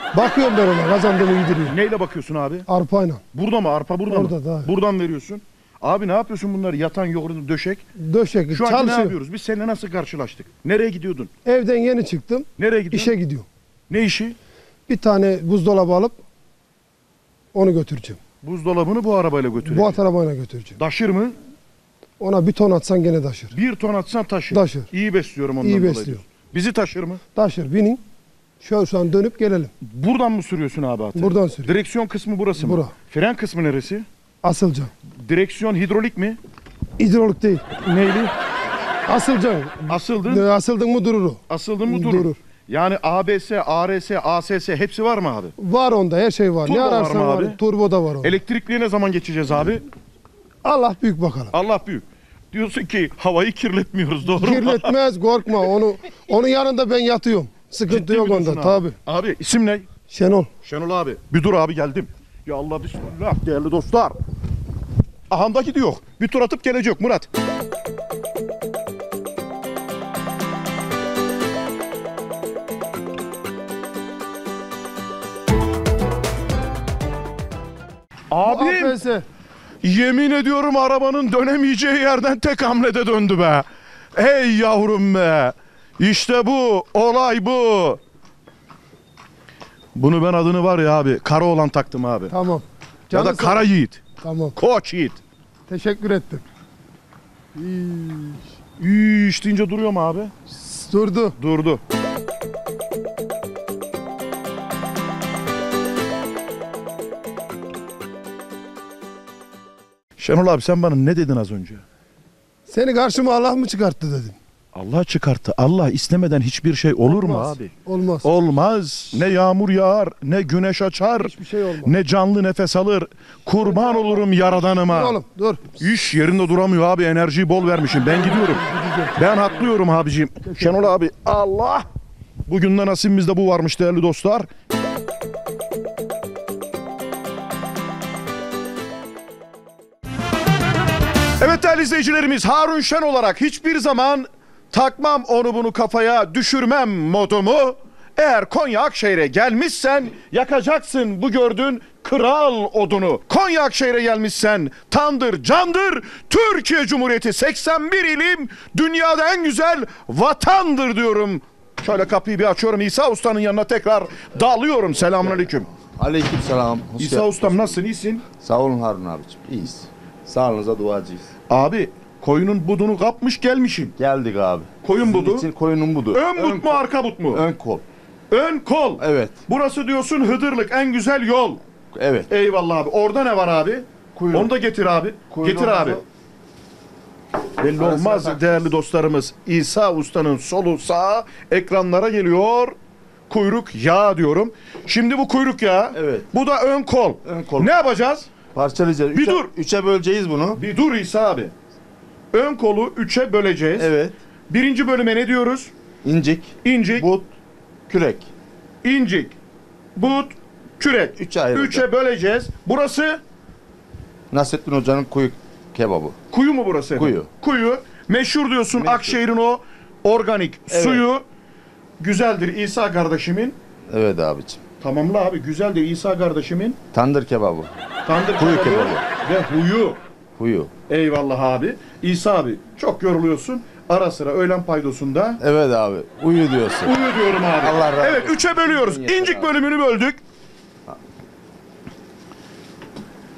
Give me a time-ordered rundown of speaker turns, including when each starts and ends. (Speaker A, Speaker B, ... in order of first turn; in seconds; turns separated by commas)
Speaker A: 0.1-1.8, Speaker B: 1.7-2.7, Speaker A: 2.7-3.2, Speaker B: 3.3-7.8, Speaker A: 4.1-4.7, Speaker A: 8.0-9.2, Speaker B: 8.5-11.3, Speaker A: 11.4-13.5, Speaker B: 12.6-13.1, Speaker B: 13.9-14.4, Speaker A: 14.9-16.2, Speaker A: 17.5-18.2, Speaker B: 18.4-20.0, Speaker A: 19.6-20.8, Speaker B: 20.8-21.4, Speaker A: 22.2-23.5, Speaker B: 23.5-27.2, Speaker A: 24.5-24.9, Speaker A: 25.6-26.2, Speaker A: 27.4-28.0, Speaker A: 28.6-29.7, Speaker B: 29.8-34.1, Speaker A: 31.1-31.7, Speaker A: 32.6-32.9, Speaker A: 34.4-34.9, Speaker B: 35.1-36.4, Speaker A: 37.0-37.8, Speaker B: 37.8-38.3, Speaker A: 39.1-42.4, Speaker B: 39.9-40.5, Speaker B: 41.5-45.5, Speaker A: 45.6-48.4, Speaker B: 46.6-47.6, Speaker B: 48.2-49.9, Speaker A: 50.6-51.5, Speaker B: 51.5-55.0, Speaker A: 54.3-58.9, Speaker B: 57.9-59.9, Speaker A: 60.1-60.5, Speaker B: 60.6-64.2, Speaker B: 65.3-67.3, Speaker B: 78.3-79.0, Speaker A: 78.4-79.2, Speaker B: 79.8-88.0, Speaker B: 90.0-92.3, Speaker A: 92.3-93.6, Speaker B: 93.1-94.0, Speaker A: 94.2-94.6, Speaker B: 94.6-95.2, Speaker A: 95.7-96.4, Speaker A: 97.5-98.5, Speaker B: 98.8-100.3, Speaker A: 100.5-101.3, Speaker B: 101.4-101.8, Speaker B: 110.2-111.8, Speaker A: 112.7-114.4, Speaker B: 114.7-117.7, Speaker A: 117.0-118.3, Speaker B: 118.2-125.2, Speaker A: 121.2-121.9, Speaker A: 123.6-125.7, Speaker B: 125.8-131.9, Speaker A: 128.1-129.2, Speaker B: 132.5-134.5, Speaker B: 141.4-165.7, Speaker C: 165.9-167.8, Speaker B: 167.0-168.2, Speaker C: 168.3-171.3, Speaker B: 171.5-173.9, Speaker C: 174.0-177.8, Speaker B: 174.8-175.5, Speaker B: 176.1-177.5, Speaker B: 178.3-181.6, Speaker C: 179.0-179.4, Speaker C: 181.9-182.3, Speaker B: 182.3-186.0, Speaker C: 184.2-184.5, Speaker C: 185.3-186.0, Speaker B: 187.6-192.8, Speaker C: 187.8-188.7, Speaker B: 193.3-198.3, Speaker C: 195.9-196.3, Speaker C: 197.2-197.7, Speaker C: 198.5-200.6, Speaker B: 199.1-199.5, Speaker B: 200.6-201.5, Speaker B: 202.3-203.9, Speaker C: 203.8-204.2, Speaker B: 204.5-205.7, Speaker C: 206.0-207.3, Speaker B: 206.6-207.1, Speaker C: 207.9-208.3, Speaker B: 208.8-209.3, Speaker B: 210.0-213.2, Speaker C: 211.2-211.9, Speaker C: 214.3-216.2, Speaker B: 216.3-221.2, Speaker C: 217.0-217.3, Speaker C: 218.8-219.2, Speaker C: 220.7-221.0, Speaker B: 222.0-223.6, Speaker C: 223.9-224.6, Speaker B: 224.8-226.8, Speaker C: 226.9-227.7, Speaker B: 228.1-230.0, Speaker C: 228.4-229.1, Speaker C: 230.4-230.7, Speaker B: 230.9-235.4, Speaker C: 235.4-237.0, Speaker B: 236.8-240.2, Speaker C: 237.6-239.5